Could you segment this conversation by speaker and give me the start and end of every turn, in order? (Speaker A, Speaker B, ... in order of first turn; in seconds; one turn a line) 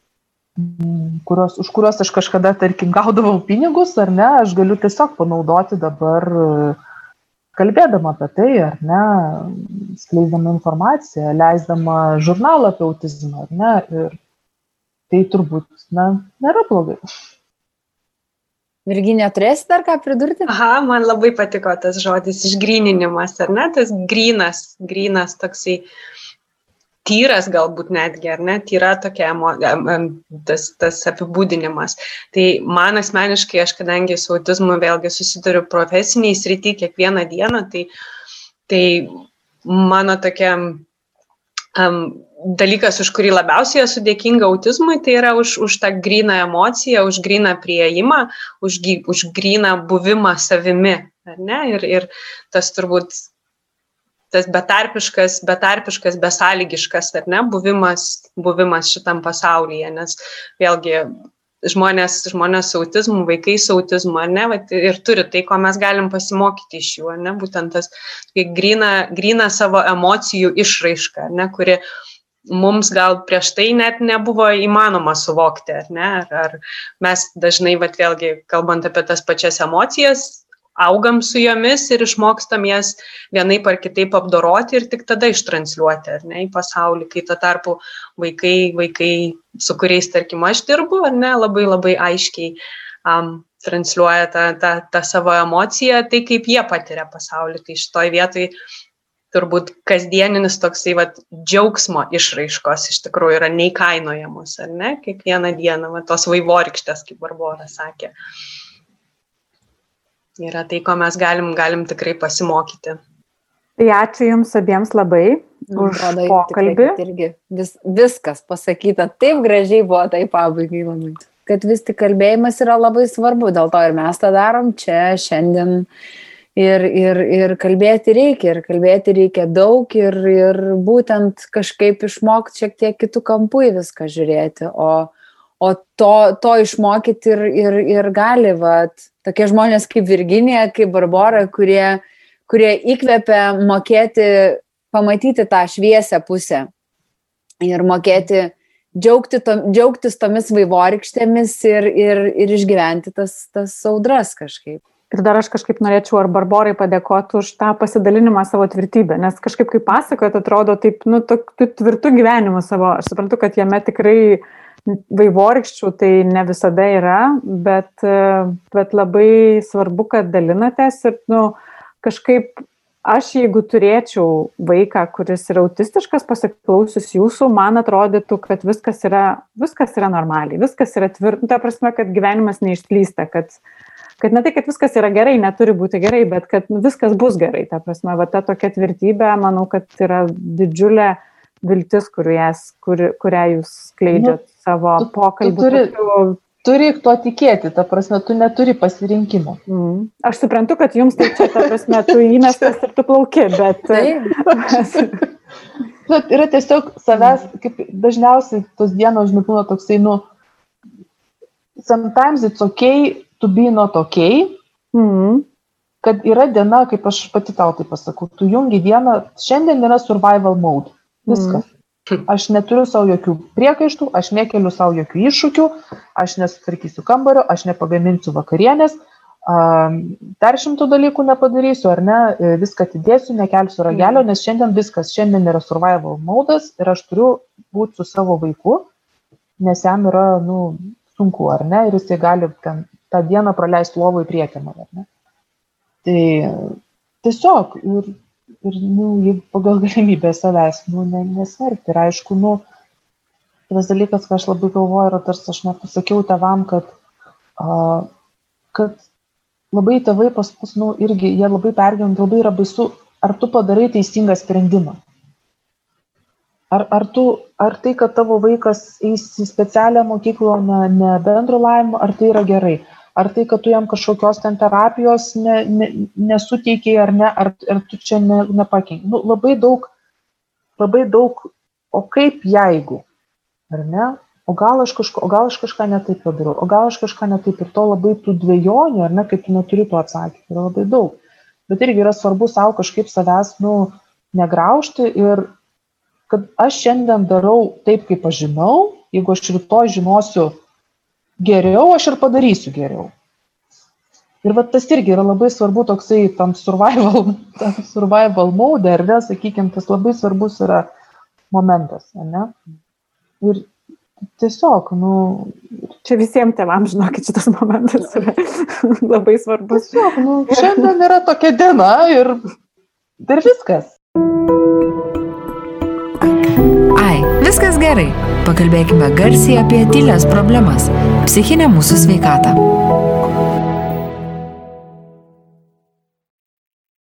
Speaker A: 0.6-6.8
Speaker A: 7.5-14.2
Speaker A: 15.1-17.0
Speaker B: 18.9-20.5
Speaker C: 20.5-25.9
Speaker C: 27.0-37.9
Speaker C: 38.7-40.8
Speaker C: 41.7-53.2
Speaker C: 54.3-71.8
Speaker C: 72.5-98.5
Speaker C: 99.3-108.1
Speaker C: 110.4-113.0
Speaker D: 113.8-117.0
Speaker B: 115.7-125.9
Speaker B: 126.5-146.7
Speaker B: 147.6-154.8
Speaker D: 155.1-183.6
Speaker D: 184.2-196.4
Speaker A: 194.1-194.4
Speaker A: 195.0-195.9
Speaker A: 196.6-199.6
Speaker D: 199.7-205.2
Speaker A: 201.2-202.7
Speaker B: 203.9-204.3
Speaker A: 204.5-205.2
Speaker A: 206.1-210.2
Speaker A: 211.8-214.6
Speaker D: 214.9-215.4
Speaker A: 216.0-221.6
Speaker D: 221.3-221.6
Speaker A: 222.3-238.9
Speaker D: 233.9-234.2
Speaker A: 239.6-245.1
Speaker A: 246.0-252.6
Speaker A: 253.7-256.9
Speaker A: 257.6-258.1
Speaker A: 258.7-259.0
Speaker A: 259.7-265.0
Speaker A: 266.7-279.9
Speaker A: 280.8-283.0
Speaker A: 283.7-295.5
Speaker A: 296.3-300.6
Speaker A: 301.4-303.1
Speaker A: 304.4-310.9
Speaker A: 311.5-312.5
Speaker A: 313.4-313.7
Speaker A: 314.4-315.9
Speaker D: 316.0-319.9
Speaker A: 319.7-322.4
Speaker D: 320.5-320.8
Speaker A: 323.2-323.9
Speaker E: 326.2-332.6